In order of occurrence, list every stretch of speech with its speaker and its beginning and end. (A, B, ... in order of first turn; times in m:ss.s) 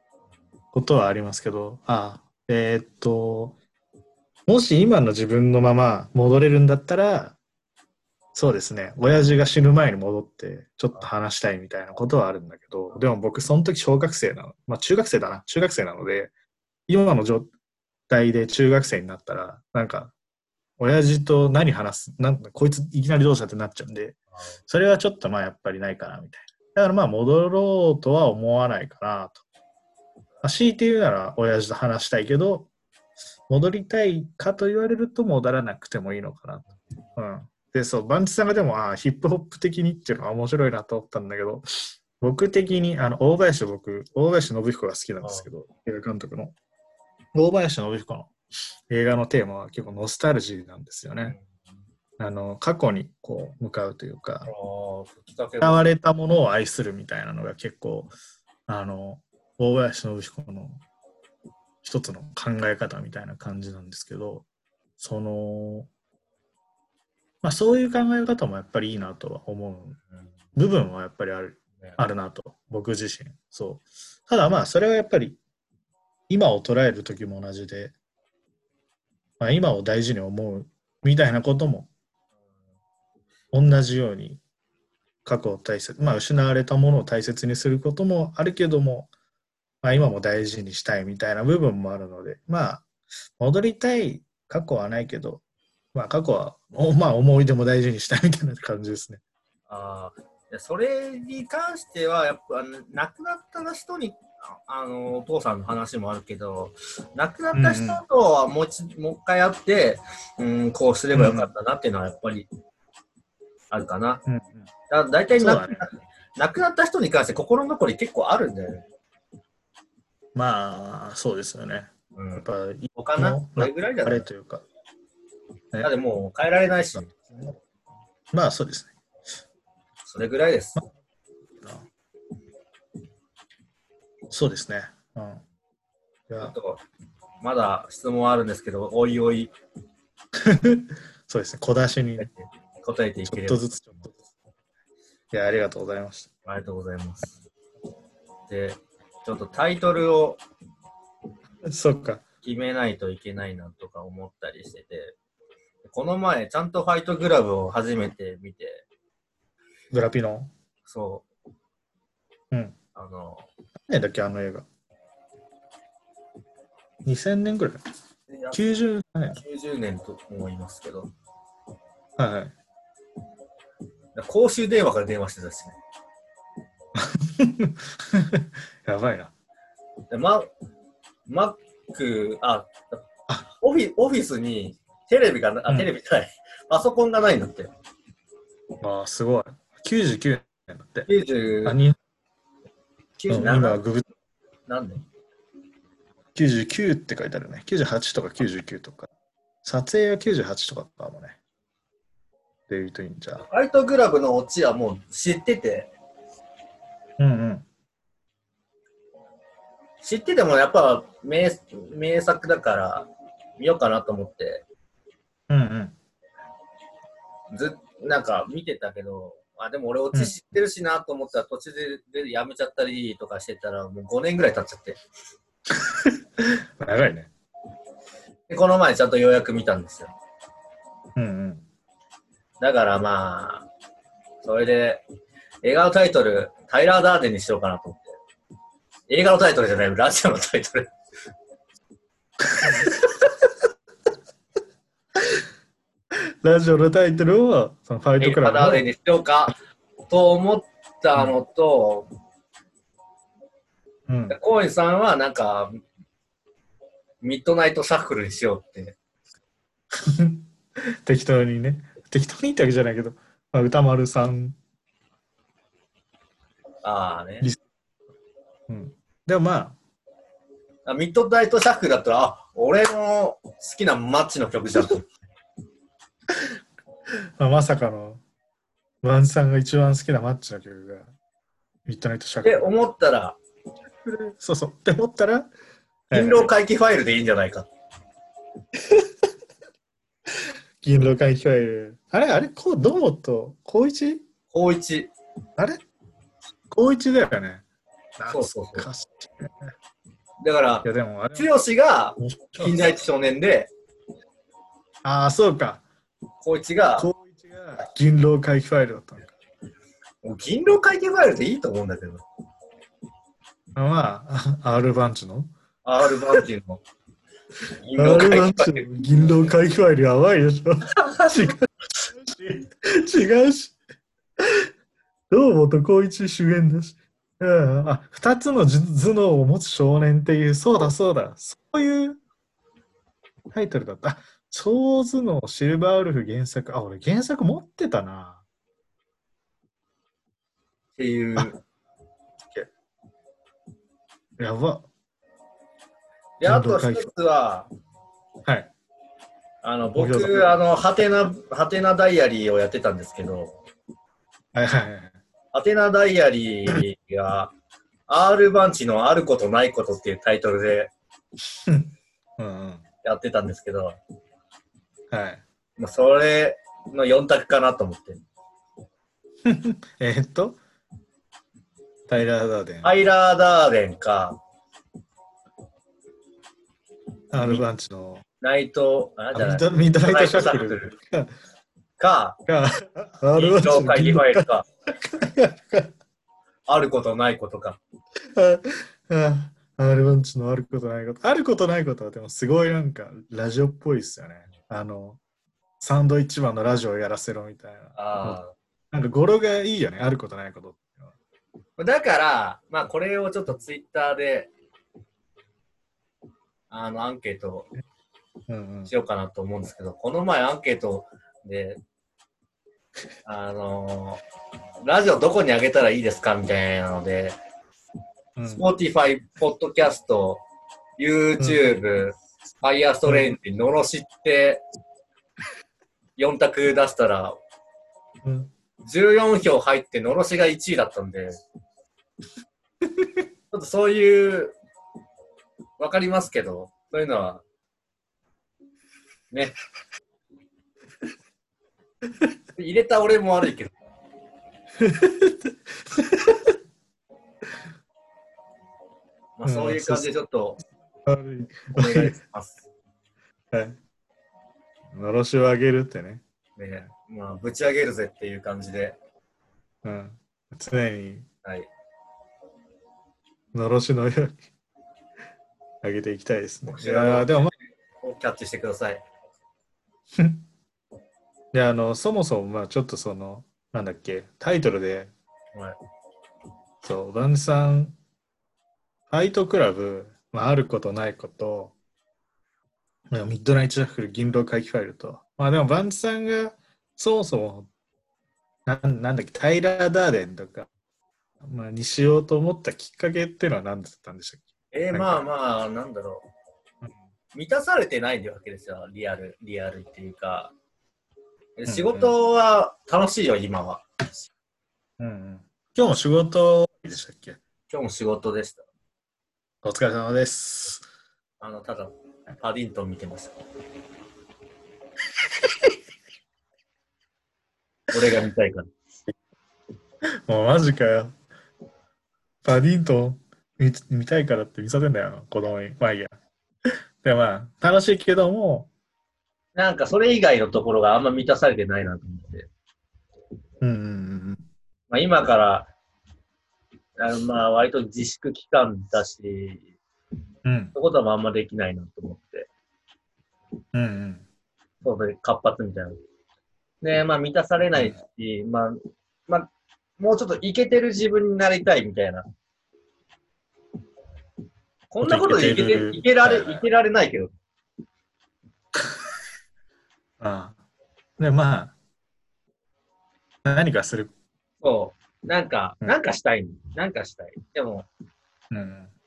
0:00.7-0:03.6 A
0:04.5-0:07.4 A
0:08.3-0:16.3 A
0:16.9-0:17.5 A
0:18.1-0:20.1 A
0:20.8-0:24.2 A
0:24.7-0:29.4 A
0:30.4-0:32.7 A
0:33.5-0:46.5 A
0:45.2-0:45.5 B
0:47.3-0:48.3 A
0:48.9-0:51.4 A
0:52.2-0:54.5 A
0:54.4-0:55.9 B
0:55.6-0:58.1 A
0:58.7-1:00.8 A
1:01.8-1:04.4 A
1:05.0-1:05.9 A
1:07.4-1:10.0 A
1:10.5-1:15.4 A
1:16.3-1:17.9 A
1:19.4-1:21.9 A
1:23.5-1:24.4 A
1:25.2-1:29.1 A
1:29.8-1:32.9 A
1:33.4-1:35.4 A
1:35.9-1:39.2 A
1:39.7-1:52.5 B
1:47.5-1:48.0 A
1:51.1-1:51.5 A
1:53.7-1:54.2 B
1:54.2-1:54.7 A
1:54.9-1:58.8 B
1:55.4-1:55.8 A
2:00.3-2:04.6 A
2:02.1-2:04.2 B
2:05.8-2:07.2 B
2:07.1-2:07.5 A
2:08.3-2:08.9 A
2:10.0-2:10.8 B
2:11.6-2:11.9 A
2:14.3-2:15.4 A
2:16.3-2:16.5 A
2:16.4-2:16.8 B
2:17.4-2:19.5 B
2:20.4-2:22.3 A
2:22.2-2:24.0 B
2:23.2-2:24.2 A
2:25.3-2:26.3 A
2:26.4-2:27.4 B
2:28.5-2:30.4 B
2:31.6-2:32.2 A
2:32.4-2:35.2 B
2:35.9-2:38.8 B
2:39.9-2:40.5 A
2:40.8-2:41.2 B
2:42.5-2:42.8 A
2:42.9-2:43.5 B
2:43.9-2:44.6 A
2:47.0-2:47.8 A
2:48.3-2:48.6 B
2:48.5-2:49.4 A
2:49.3-2:51.1 B
2:52.2-2:52.5 A
2:54.1-2:55.8 B
2:56.9-2:59.3 A
3:00.1-3:00.5 B
3:01.3-3:07.7 B
3:08.8-3:11.1 A
3:11.0-3:11.8 B
3:11.6-3:12.0 A
3:13.2-3:13.8 B
3:13.3-3:14.0 A
3:14.7-3:15.0 B
3:16.3-3:19.1 A
3:19.6-3:21.4 A
3:22.7-3:23.4 A
3:23.4-3:25.9 B
3:27.2-3:27.6 A
3:30.0-3:34.6 B
3:35.5-3:35.9 A
3:37.5-3:45.0 B
3:45.7-3:47.3 A
3:48.5-3:50.1 B
3:51.2-3:51.6 A
3:52.6-3:53.7 B
3:54.4-3:55.0 B
3:55.6-3:58.2 B
3:59.1-4:00.9 B
4:02.5-4:03.3 A
4:06.1-4:08.8 A
4:08.2-4:09.5 B
4:10.1-4:12.1 B
4:14.1-4:14.4 A
4:14.3-4:15.8 B
4:17.2-4:19.0 B
4:19.9-4:20.4 A
4:21.0-4:24.6 A
4:26.8-4:27.5 B
4:28.7-4:29.8 A
4:30.8-4:35.1 B
4:37.4-4:38.2 A
4:39.0-4:41.1 A
4:41.8-4:42.7 A
4:42.4-4:43.4 B
4:44.1-4:45.5 A
4:46.1-4:46.5 A
4:46.1-4:47.7 B
4:48.8-4:49.1 A
4:50.3-4:54.2 A
4:54.5-4:55.1 B
4:56.7-4:57.6 A
4:58.2-4:59.7 A
4:58.3-4:58.9 B
5:00.4-5:03.7 B
5:00.8-5:01.5 A
5:02.2-5:02.9 A
5:05.0-5:05.8 A
5:06.4-5:07.1 B
5:07.0-5:09.3 A
5:10.2-5:12.2 B
5:13.7-5:15.5 A
5:15.8-5:16.8 B
5:17.8-5:18.9 B
5:18.0-5:23.8 A
5:24.4-5:24.7 A
5:25.3-5:32.2 A
5:33.5-5:38.4 A
5:41.0-5:41.6 B
5:42.4-5:42.7 A
5:44.4-5:44.8 A
5:46.4-5:47.7 B
5:46.4-5:47.1 A
5:48.4-5:48.7 A
5:49.6-5:53.6 B
5:50.0-5:50.6 A
5:54.5-5:55.2 A
5:55.5-5:57.5 B
5:58.1-6:00.9 B
6:01.7-6:02.8 A
6:03.0-6:04.0 B
6:05.1-6:05.4 A
6:05.8-6:08.2 B
6:09.4-6:10.6 A
6:12.1-6:13.0 A
6:12.8-6:14.4 B
6:17.3-6:18.2 A
6:18.4-6:20.9 B
6:19.3-6:21.3 A
6:22.0-6:22.4 B
6:22.5-6:24.5 A
6:23.4-6:24.6 B
6:25.0-6:25.9 A
6:26.7-6:27.8 B
6:28.3-6:35.2 A
6:35.8-6:38.4 A
6:38.0-6:38.5 B
6:38.9-6:41.1 A
6:41.8-6:44.5 B
6:46.7-6:47.7 B
6:48.5-6:48.9 A
6:48.9-6:51.8 B
6:53.2-6:54.2 B
6:54.8-6:57.4 B
6:58.4-6:58.6 A
6:58.4-7:00.4 B
7:01.0-7:04.6 B
7:01.4-7:01.7 A
7:03.0-7:03.4 A
7:06.2-7:07.4 B
7:08.2-7:08.5 A
7:08.8-7:11.4 B
7:12.8-7:13.2 A
7:13.5-7:14.6 B
7:15.8-7:17.4 B
7:19.3-7:19.6 B
7:22.6-7:23.7 B
7:24.8-7:26.5 A
7:29.4-7:30.6 B
7:29.4-7:30.1 A
7:31.0-7:32.2 A
7:31.7-7:32.6 B
7:33.5-7:33.8 A
7:34.9-7:36.2 A
7:36.6-7:39.0 B
7:39.8-7:41.3 A
7:41.4-7:41.7 B
7:43.5-7:44.4 A
7:45.8-7:47.5 A
7:46.7-7:49.0 B
7:50.2-7:50.4 A
7:51.5-7:55.1 A
7:56.8-7:58.0 A
7:59.1-8:01.7 A
8:03.1-8:07.7 A
8:08.6-8:10.7 A
8:11.4-8:15.2 A
8:14.7-8:16.3 B
8:17.3-8:20.5 B
8:21.6-8:23.8 B
8:21.6-8:22.1 A
8:25.0-8:27.4 A
8:27.7-8:28.6 B
8:29.6-8:30.8 A
8:31.4-8:33.3 B
8:37.9-8:38.7 B
8:40.3-8:41.2 A
8:42.4-8:46.1 A
8:46.6-8:48.7 A
8:49.6-8:52.5 B
8:53.6-8:54.4 A
8:54.9-8:55.7 B
8:57.0-8:59.7 B
9:00.4-9:00.7 A
9:00.7-9:02.5 B
9:03.7-9:04.2 A
9:04.8-9:06.0 B
9:06.8-9:12.2 B
9:14.9-9:17.3 B
9:15.0-9:16.6 A
9:20.2-9:20.6 A
9:21.2-9:21.7 A
9:23.4-9:24.1 A
9:24.6-9:27.9 B
9:28.5-9:28.9 A